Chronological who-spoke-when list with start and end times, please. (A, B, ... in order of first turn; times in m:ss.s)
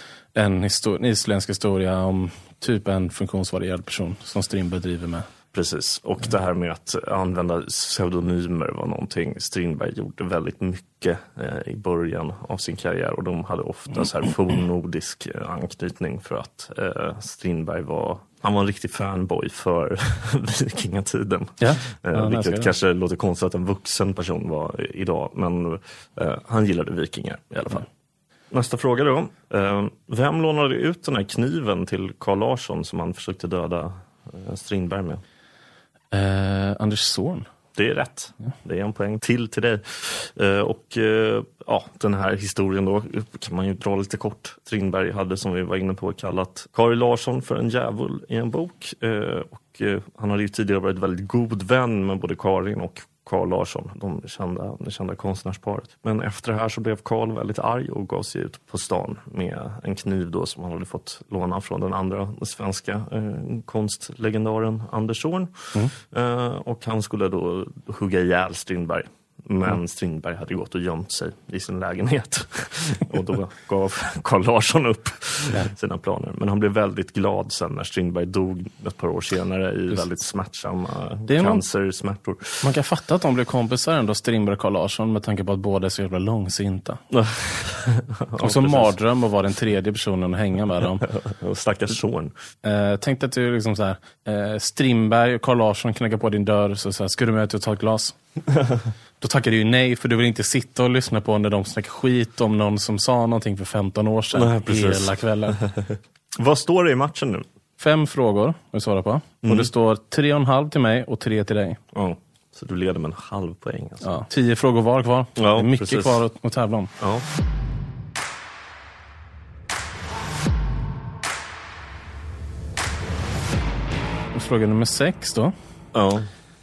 0:00.3-0:05.3 A
0:05.5-0:27.9 B
0:21.6-0:22.7 A
0:28.5-0:35.2 B
0:36.1-0:37.4 A
0:37.7-1:22.6 B
1:21.3-1:21.6 A
1:22.6-1:27.0 A
1:27.1-1:28.9 B
1:28.4-1:31.1 A
1:31.0-1:32.3 B
1:32.6-1:38.2 A
1:39.2-1:45.6 A
1:44.3-1:47.4 B
1:47.8-1:51.8 A
1:49.4-1:49.7 B
1:51.9-1:54.1 B
1:54.0-1:56.9 A
1:55.4-1:56.2 B
1:57.0-1:57.2 B
2:04.3-2:05.5 A
2:05.9-2:06.3 B